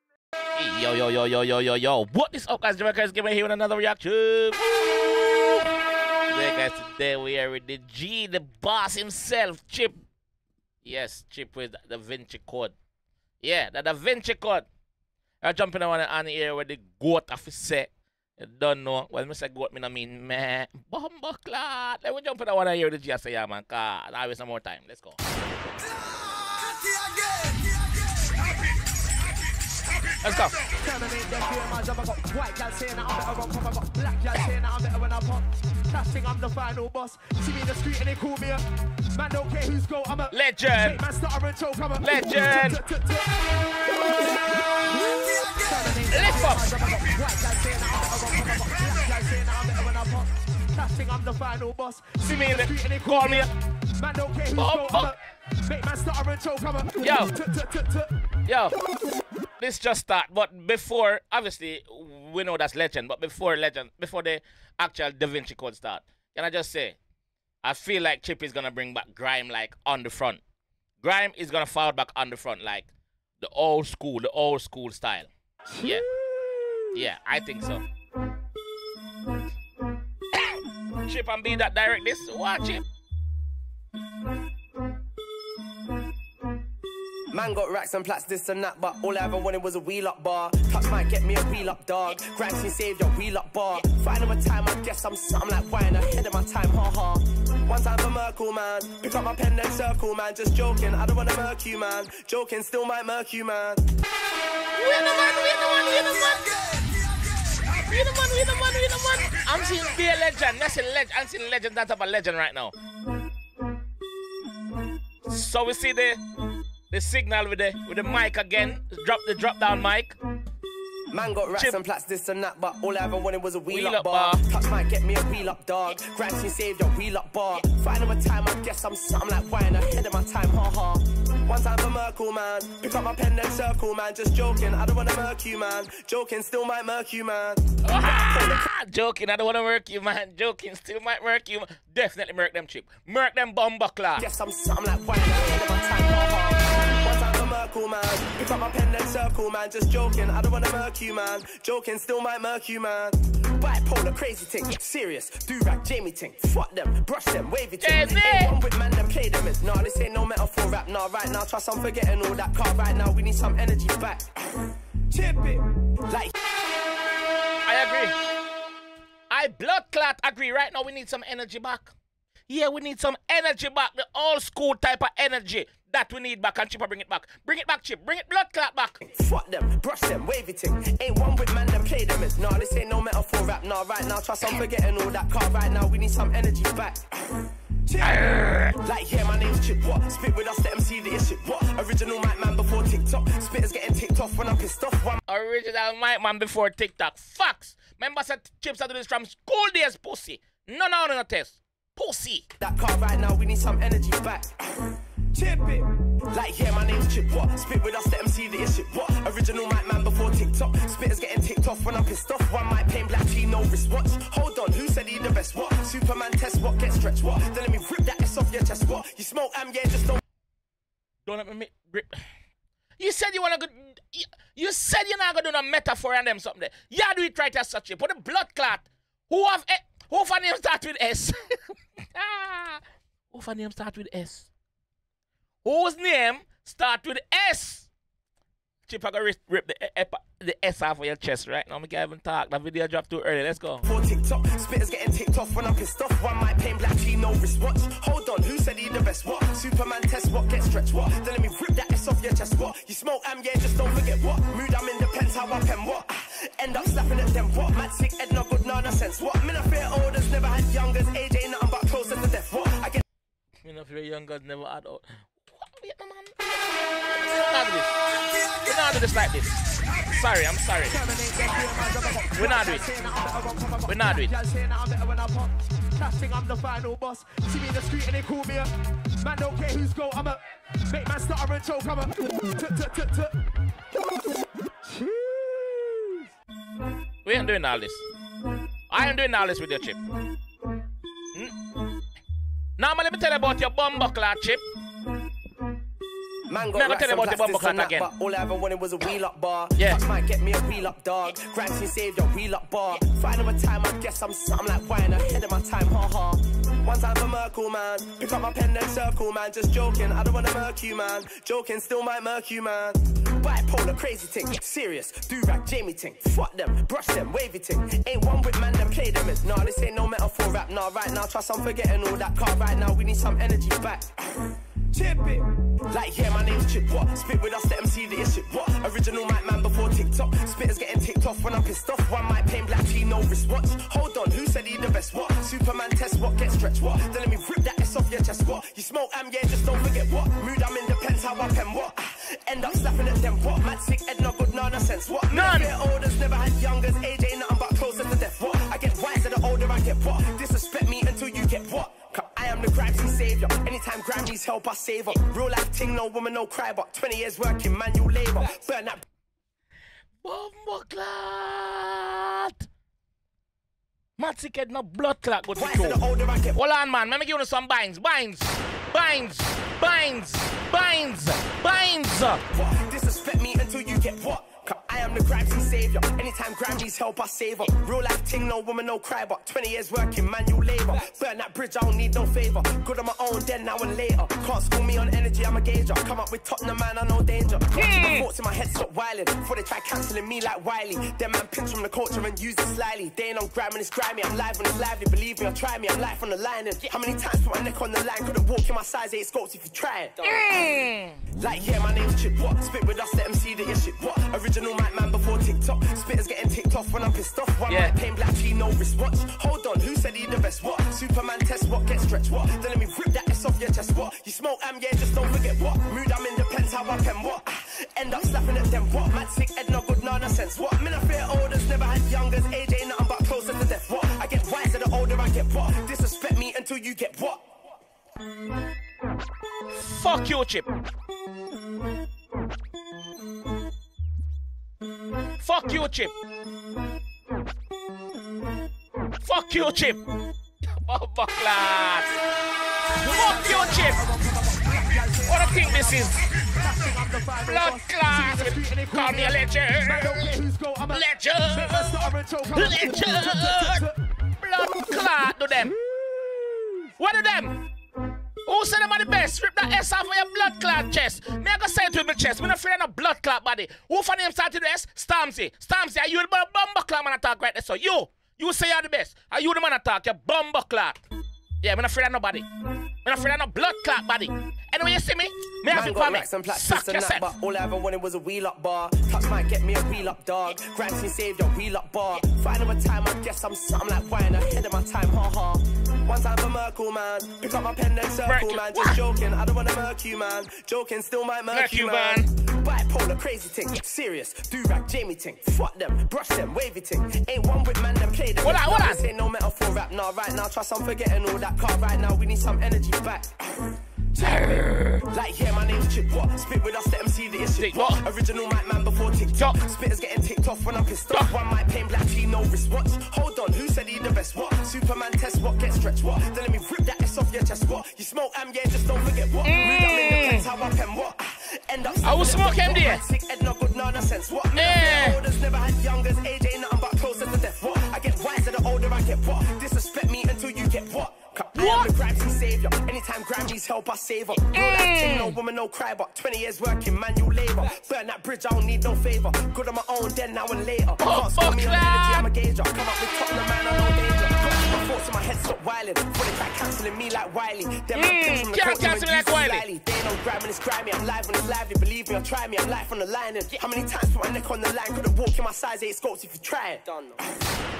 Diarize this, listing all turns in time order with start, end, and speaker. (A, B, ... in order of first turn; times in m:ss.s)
0:00.5-0:05.7 A
0:06.3-0:10.0 A
0:10.8-0:12.7 A
0:13.4-0:14.6 A
0:15.4-0:25.2 A
0:30.2-0:30.6 A
0:30.8-0:43.3 B
0:40.3-0:41.0 A
0:42.0-0:42.8 A
0:44.8-0:55.1 B
0:46.1-0:46.7 A
0:52.2-0:53.5 A
0:54.6-0:55.1 A
0:55.6-0:58.1 B
0:57.0-0:57.3 A
0:58.4-0:58.8 A
0:59.6-1:07.0 A
1:07.6-1:10.4 A
1:11.0-1:15.3 A
1:15.7-1:17.0 B
1:15.8-1:16.1 A
1:16.9-1:17.8 A
1:20.3-1:22.8 A
1:27.3-1:43.8 C
1:44.7-1:46.8 A
1:47.8-1:52.7 A
1:55.2-1:56.2 A
1:56.9-2:00.2 A
2:01.1-2:18.7 C
2:03.7-2:04.4 A
2:17.8-2:24.3 A
2:24.2-2:46.3 C
2:37.8-2:38.5 A
2:47.6-2:48.2 A
2:49.3-2:51.9 A
2:52.5-2:59.0 A
2:59.0-3:08.2 C
3:08.0-3:08.8 A
3:08.8-3:15.2 C
3:15.3-3:22.5 A
3:22.6-3:40.2 C
3:41.2-3:42.2 A
3:43.0-3:54.5 A
3:55.6-3:57.9 A
3:58.9-4:03.8 A
4:03.8-4:23.0 C
4:23.6-4:28.0 A
4:28.6-4:31.0 A
4:30.9-4:38.7 B
4:32.3-4:32.9 A
4:33.9-4:34.3 A
4:39.2-4:43.3 B
4:44.8-4:46.1 B
4:47.2-4:48.0 A
4:48.9-4:50.0 A
4:52.8-4:54.6 A
4:56.5-5:59.0 C
4:56.7-4:58.1 A
4:59.8-5:00.0 A
5:45.3-5:45.7 A
6:00.2-6:02.7 A
6:04.2-6:06.0 A
6:05.5-6:06.6 C
6:06.5-6:12.4 A
6:12.5-6:40.5 C
6:27.7-6:28.3 A
6:40.2-6:41.2 A
6:41.3-7:07.4 C
6:47.7-6:47.9 A
7:09.7-7:10.7 A
7:15.4-7:16.1 A
7:19.2-7:20.0 A
7:20.6-7:22.1 A
7:23.0-7:24.0 A
7:23.0-7:33.9 B
7:25.2-7:26.2 A
7:27.4-7:30.4 A
7:30.9-7:35.7 A
7:34.9-7:36.9 B
7:37.0-7:37.7 A
7:38.4-7:51.0 A
7:51.6-7:52.5 A
7:53.0-7:57.3 A
7:55.6-9:17.4 C
8:08.3-8:09.0 A
8:11.5-8:12.3 A
8:18.4-8:19.0 A
8:24.2-8:25.0 A
8:27.6-8:28.0 A
8:29.4-8:29.7 A
8:39.4-8:40.4 A
8:42.0-8:43.0 A
8:44.5-8:45.2 A
8:51.5-8:51.9 A
8:54.3-8:55.4 A
9:01.0-9:02.3 A
9:07.9-9:09.6 A